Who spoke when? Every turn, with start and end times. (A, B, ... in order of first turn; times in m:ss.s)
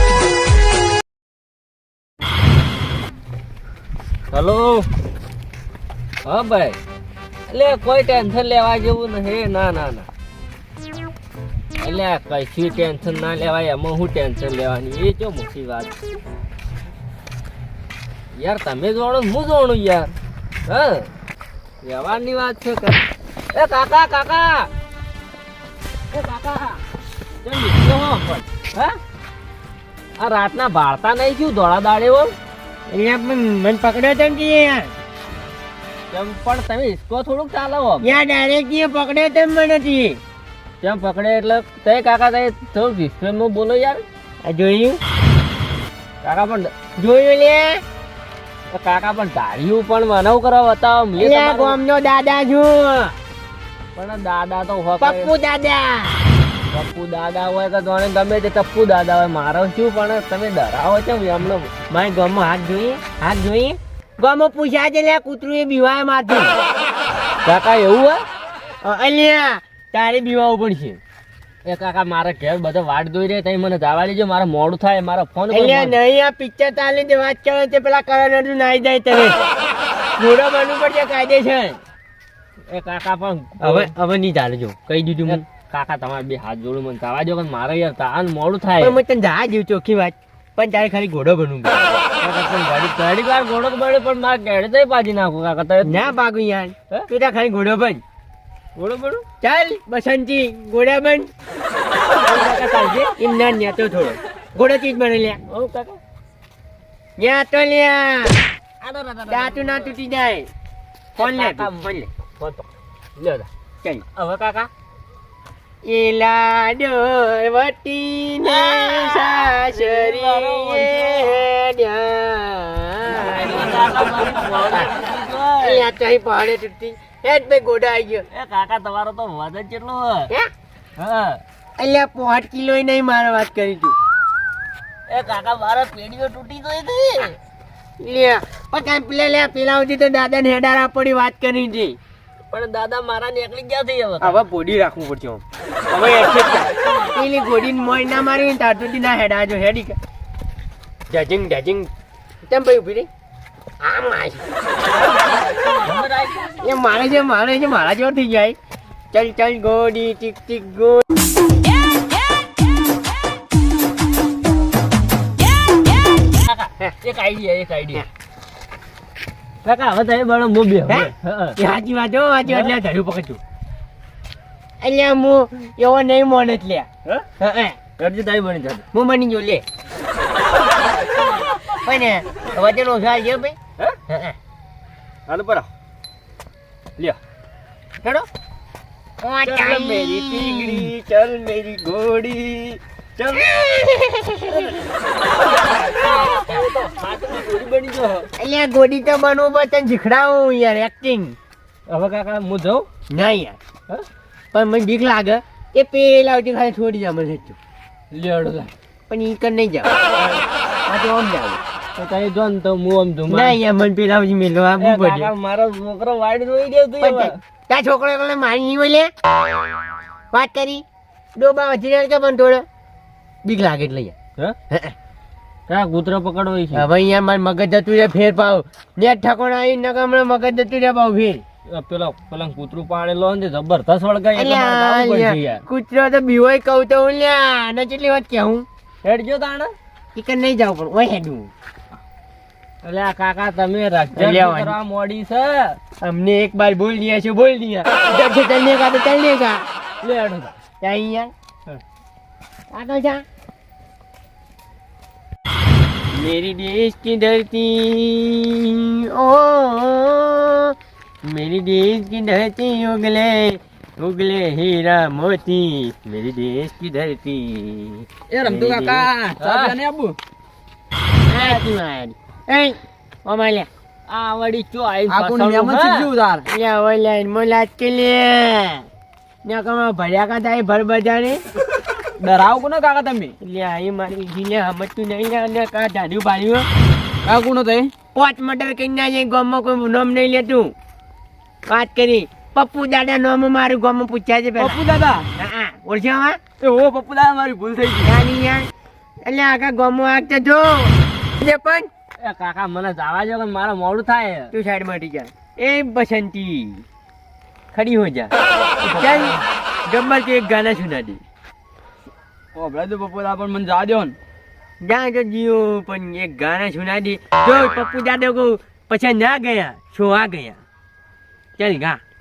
0:04.3-0:04.9 A
0:06.2-0:06.8 A
0:07.5-0:10.1 A
0:11.8-0:15.9 A
0:18.4-0:20.1 A
0:20.7-0:21.1 A
0:21.8-0:24.7 A
0:26.1-0:26.8 A
0:27.4-0:29.0 A
0:30.2-0:32.3 A
0:32.9-0:34.9 B
0:36.1-0:38.1 A
0:38.0-0:40.2 B
0:40.8-0:44.0 A
0:44.4-0:45.0 B
0:46.2-0:46.7 A
0:47.0-0:47.8 B
0:48.7-0:51.8 A
0:51.2-0:53.2 B
0:53.9-0:55.3 A
0:55.0-0:56.2 B
0:56.7-1:01.7 A
1:01.9-1:06.5 B
1:07.4-1:08.2 A
1:08.8-1:11.0 B
1:11.6-1:16.0 A
1:15.5-1:19.4 B
1:20.2-1:21.8 B
1:22.7-1:23.9 A
1:23.6-1:25.4 B
1:25.3-1:28.9 A
1:28.8-1:32.0 B
1:32.2-1:36.0 A
1:35.8-1:38.0 B
1:38.7-1:39.2 A
1:39.4-1:41.3 B
1:42.2-1:45.4 B
1:45.4-1:46.0 A
1:47.2-1:48.4 B
1:48.8-1:49.9 A
1:49.3-1:50.5 B
1:51.2-1:53.5 A
1:51.2-1:51.9 B
1:54.1-1:54.7 A
1:55.8-2:03.7 B
1:58.4-2:01.3 A
2:03.3-2:05.8 A
2:05.6-2:08.2 B
2:08.3-2:10.3 A
2:11.0-2:11.4 A
2:11.8-2:13.9 B
2:15.1-2:17.4 A
2:18.0-2:22.0 B
2:22.5-2:24.4 A
2:24.2-2:30.0 B
2:31.1-2:31.9 B
2:32.5-2:33.1 B
2:33.8-2:34.4 B
2:34.9-2:36.6 A
2:36.6-2:38.6 B
2:39.1-2:41.0 B
2:46.4-2:48.0 A
2:49.6-2:51.5 A
2:50.9-2:53.4 B
2:52.4-2:52.7 A
2:54.8-2:57.8 B
2:57.9-2:58.8 A
2:58.9-2:59.6 B
3:01.8-3:03.6 B
3:04.1-3:04.4 B
3:05.3-3:05.7 A
3:09.2-3:10.9 B
3:09.4-3:13.5 A
3:13.9-3:14.6 B
3:14.4-3:14.9 A
3:15.5-3:18.3 A
3:18.4-3:21.4 B
3:21.9-3:22.9 A
3:23.1-3:23.6 B
3:24.5-3:27.6 B
3:28.1-3:28.7 A
3:29.1-3:31.6 B
3:32.0-3:33.5 A
3:33.3-3:35.3 B
3:34.8-3:37.4 A
3:37.0-3:39.1 B
3:40.3-3:40.8 B
3:41.4-3:42.6 B
3:43.4-3:44.1 B
3:45.7-3:46.8 A
3:46.7-3:51.4 B
3:51.7-3:55.6 A
3:54.3-3:58.6 B
3:59.0-3:59.7 A
4:00.1-4:01.5 B
4:02.8-4:05.8 A
4:04.1-4:04.7 B
4:06.0-4:09.6 B
4:10.0-4:10.6 A
4:10.8-4:11.3 B
4:12.7-4:13.2 B
4:16.1-4:28.1 B
4:28.3-4:30.2 C
4:28.4-4:29.7 A
4:31.3-4:33.7 B
4:34.1-4:36.1 A
4:35.1-4:36.5 C
4:36.4-4:38.8 B
4:39.4-4:41.4 B
4:42.2-4:43.3 C
4:43.4-4:46.7 B
4:47.2-4:47.9 C
4:48.1-4:50.7 B
4:51.6-4:54.8 B
4:54.6-4:55.3 C
4:55.4-4:56.4 B
4:56.6-4:58.1 C
4:58.0-4:58.7 B
4:59.2-5:01.9 B
5:02.2-5:04.5 A
5:04.5-5:06.8 B
5:07.7-5:08.3 B
5:08.8-5:09.4 C
5:09.0-5:09.3 B
5:09.9-5:11.2 B
5:12.5-5:14.2 C
5:14.8-5:20.6 B
5:21.6-5:22.0 B